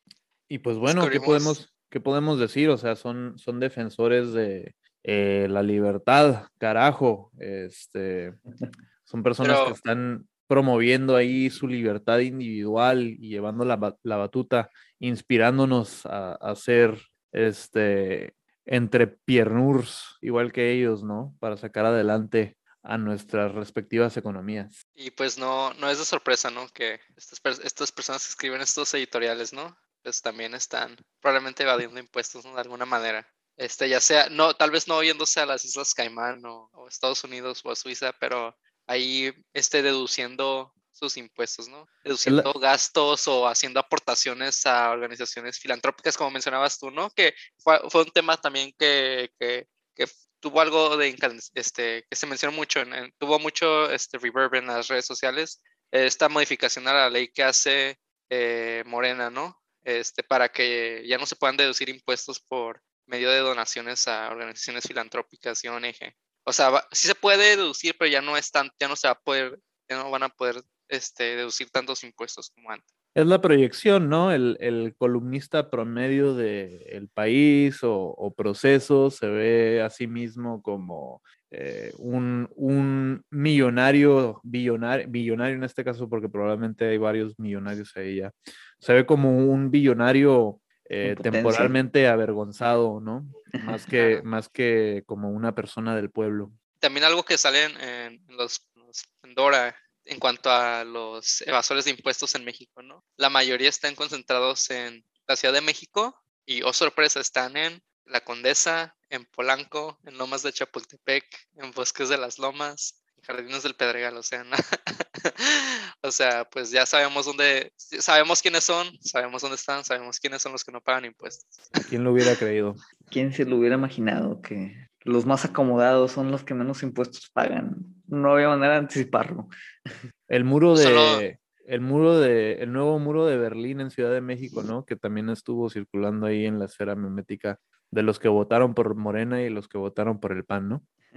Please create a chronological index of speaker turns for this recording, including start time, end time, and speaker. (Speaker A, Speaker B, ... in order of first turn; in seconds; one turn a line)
Speaker A: 0.5-8.4
Speaker B: 0.8-1.6
Speaker A: 9.1-24.8
Speaker B: 9.4-9.8
Speaker B: 25.0-72.8
Speaker A: 73.1-96.5
Speaker C: 91.0-91.8
Speaker C: 93.5-93.8
Speaker B: 94.0-94.2
Speaker B: 96.8-121.9
Speaker A: 121.9-122.8
Speaker C: 123.1-129.9
Speaker A: 130.3-140.8
Speaker B: 130.7-131.2